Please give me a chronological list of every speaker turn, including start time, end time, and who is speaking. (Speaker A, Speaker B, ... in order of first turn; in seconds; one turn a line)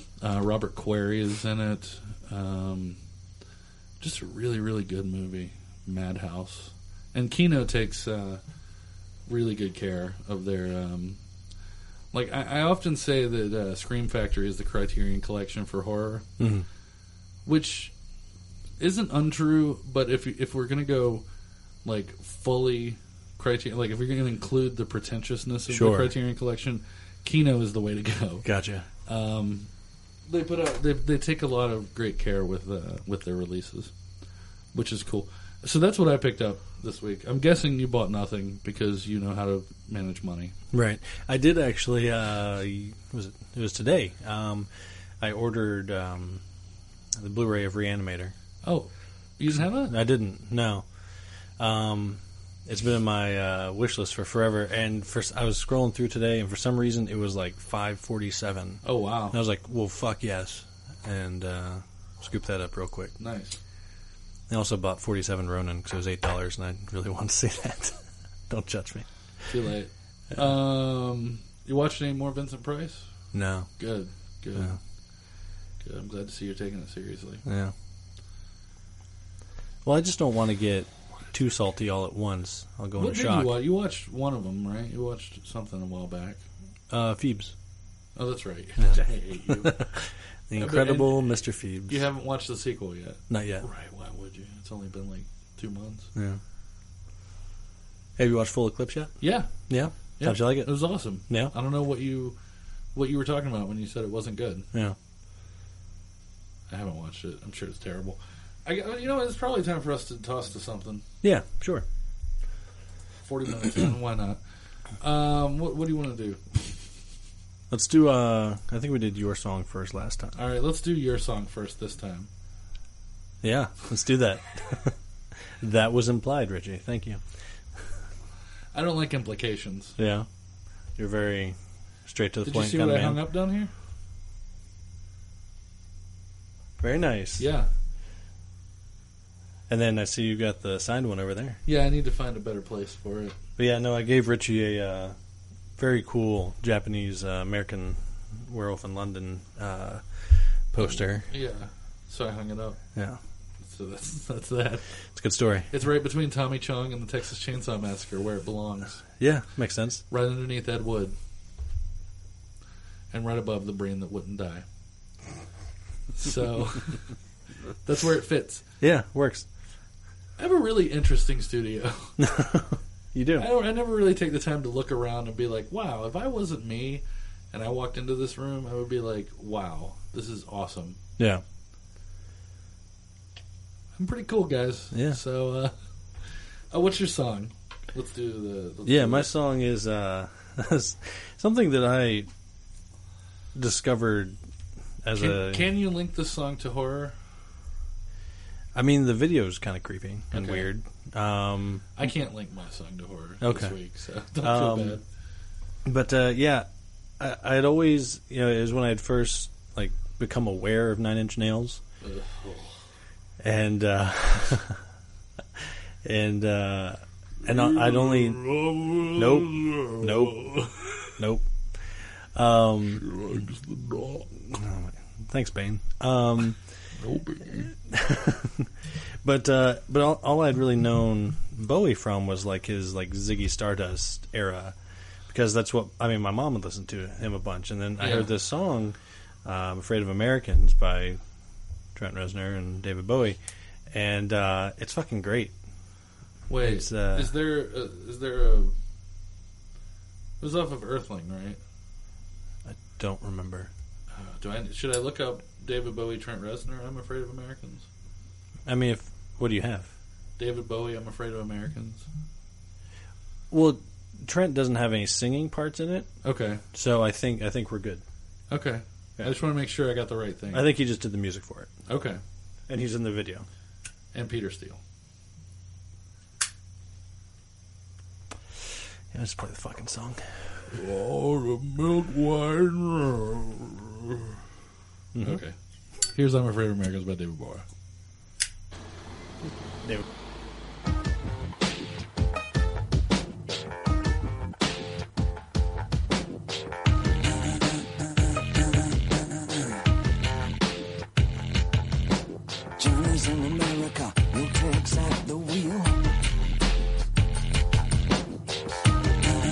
Speaker A: 0.2-3.0
Speaker A: 4.0-8.4
Speaker A: 9.3-11.2
Speaker A: 12.1-16.3
Speaker B: 16.4-16.6
Speaker A: 17.4-17.9
Speaker A: 18.8-21.2
Speaker A: 21.8-28.4
Speaker B: 25.7-26.1
Speaker B: 28.4-28.9
Speaker A: 29.1-29.7
Speaker A: 30.3-33.9
Speaker A: 34.7-40.5
Speaker B: 40.7-44.7
Speaker B: 45.2-46.4
Speaker B: 47.1-48.3
Speaker A: 48.6-50.0
Speaker B: 49.8-50.8
Speaker B: 51.6-63.1
Speaker A: 58.8-59.4
Speaker A: 63.2-63.6
Speaker B: 64.5-69.0
Speaker A: 69.5-73.1
Speaker B: 73.3-73.7
Speaker A: 73.8-74.8
Speaker A: 75.8-77.4
Speaker B: 77.4-77.7
Speaker B: 79.8-83.6
Speaker A: 83.0-86.4
Speaker B: 86.9-87.5
Speaker A: 88.2-89.8
Speaker B: 88.8-92.1
Speaker A: 90.6-91.3
Speaker A: 91.9-96.1
Speaker B: 93.3-93.6
Speaker B: 96.1-96.4
Speaker B: 98.2-101.5
Speaker A: 99.2-99.5
Speaker A: 100.2-102.3
Speaker A: 102.9-104.7
Speaker A: 106.7-111.0
Speaker B: 111.2-111.8
Speaker A: 113.2-114.4
Speaker A: 115.0-116.7
Speaker B: 117.7-120.3
Speaker A: 120.3-122.3
Speaker B: 123.4-124.9
Speaker B: 125.6-127.2
Speaker A: 128.7-130.0
Speaker B: 130.0-130.3
Speaker B: 131.0-133.2
Speaker A: 132.4-133.7
Speaker B: 136.8-137.5
Speaker A: 137.4-137.7
Speaker B: 139.7-141.6
Speaker A: 141.7-143.4
Speaker B: 143.6-145.2
Speaker B: 145.8-151.3
Speaker A: 151.3-152.8
Speaker A: 153.6-154.8
Speaker B: 155.1-155.7
Speaker A: 155.7-159.0
Speaker B: 159.2-160.0
Speaker A: 160.1-161.1
Speaker A: 163.1-164.6
Speaker A: 166.2-167.1
Speaker A: 167.8-168.6
Speaker B: 168.8-169.5
Speaker A: 170.4-172.2
Speaker B: 172.2-173.5
Speaker A: 173.4-181.0
Speaker B: 181.2-181.4
Speaker A: 183.9-189.3
Speaker B: 184.9-185.2
Speaker B: 188.8-192.3
Speaker B: 193.5-194.4
Speaker B: 195.0-195.7
Speaker A: 195.1-197.1
Speaker B: 198.7-201.9
Speaker A: 200.3-200.7
Speaker A: 201.9-205.0
Speaker B: 203.4-203.8
Speaker B: 204.4-205.0
Speaker B: 205.8-206.7
Speaker B: 207.2-211.8
Speaker A: 212.0-212.8
Speaker B: 213.4-214.8
Speaker B: 215.6-218.5
Speaker A: 217.4-221.1
Speaker B: 219.1-220.6
Speaker B: 221.2-223.1
Speaker A: 223.0-224.3
Speaker B: 224.5-226.6
Speaker A: 227.0-227.7
Speaker B: 227.7-228.7
Speaker B: 229.2-234.7
Speaker B: 235.3-241.2
Speaker A: 238.0-238.3
Speaker B: 241.9-243.4
Speaker B: 243.9-245.5
Speaker A: 246.5-248.7
Speaker B: 246.6-247.3
Speaker A: 250.4-251.6
Speaker B: 252.6-253.7
Speaker A: 254.1-257.9
Speaker B: 258.6-259.9
Speaker A: 260.4-262.1
Speaker B: 263.5-266.1
Speaker A: 266.2-266.6
Speaker B: 266.7-268.0
Speaker A: 268.5-270.7
Speaker B: 270.5-271.7
Speaker A: 271.9-272.2
Speaker B: 272.7-273.5
Speaker A: 274.1-274.8
Speaker B: 279.1-280.6
Speaker A: 280.7-284.3
Speaker B: 285.1-285.4
Speaker A: 285.2-285.5
Speaker A: 286.1-287.6
Speaker C: 302.8-306.0